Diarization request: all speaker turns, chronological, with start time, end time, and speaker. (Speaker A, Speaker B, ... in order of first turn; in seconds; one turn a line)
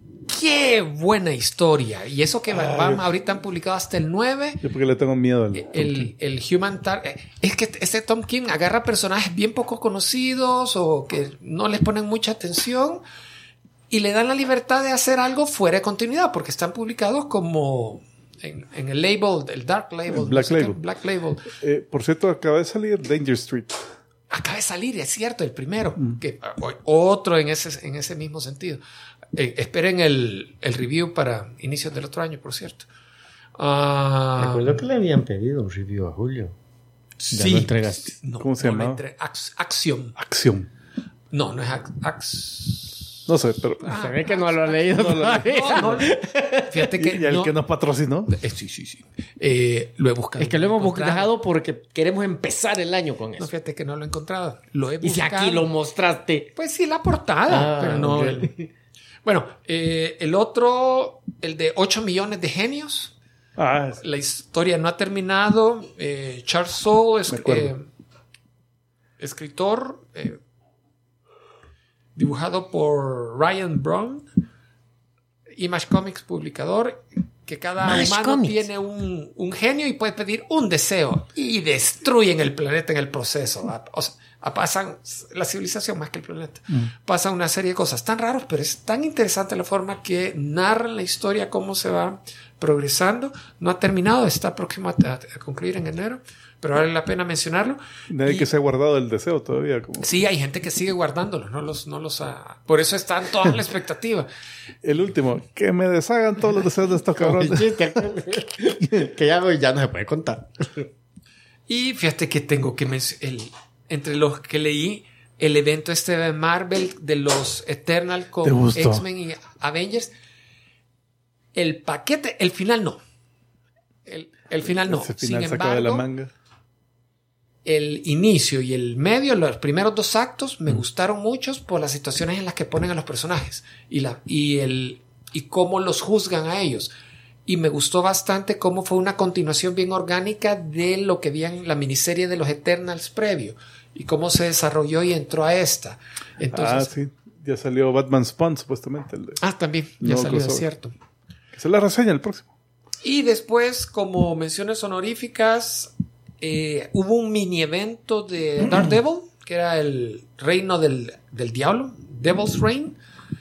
Speaker A: 0.3-4.6
Speaker B: 2.5-3.0
Speaker B: 4.6-6.1
Speaker A: 5.5-13.0
Speaker A: 13.9-21.5
Speaker B: 20.1-20.8
Speaker B: 21.6-23.8
Speaker A: 24.3-28.8
Speaker A: 29.3-32.9
Speaker A: 33.5-34.8
Speaker C: 34.4-36.5
Speaker A: 37.2-40.2
Speaker C: 37.3-38.1
Speaker B: 38.4-39.0
Speaker B: 40.2-40.7
Speaker A: 41.3-43.2
Speaker B: 43.3-44.0
Speaker A: 43.8-46.2
Speaker C: 43.9-46.8
Speaker B: 44.9-46.1
Speaker A: 46.7-47.6
Speaker B: 47.0-48.4
Speaker A: 48.3-51.3
Speaker C: 50.4-53.5
Speaker A: 53.4-55.7
Speaker C: 55.0-56.5
Speaker A: 56.6-58.5
Speaker C: 57.5-58.7
Speaker A: 59.2-63.1
Speaker B: 63.6-64.0
Speaker A: 64.0-67.8
Speaker B: 67.3-67.7
Speaker A: 69.2-70.4
Speaker A: 72.2-74.3
Speaker A: 75.6-98.5
Speaker C: 77.8-78.7
Speaker B: 98.1-100.1
Speaker A: 100.0-104.3
Speaker B: 104.8-108.0
Speaker C: 107.2-110.9
Speaker A: 111.7-120.1
Speaker B: 118.4-119.0
Speaker A: 121.5-123.0
Speaker A: 124.1-126.1
Speaker B: 124.9-126.3
Speaker A: 127.7-136.9
Speaker A: 137.5-146.9
Speaker B: 146.5-149.4
Speaker A: 149.4-150.9
Speaker B: 150.0-150.6
Speaker B: 151.5-152.5
Speaker A: 153.0-163.0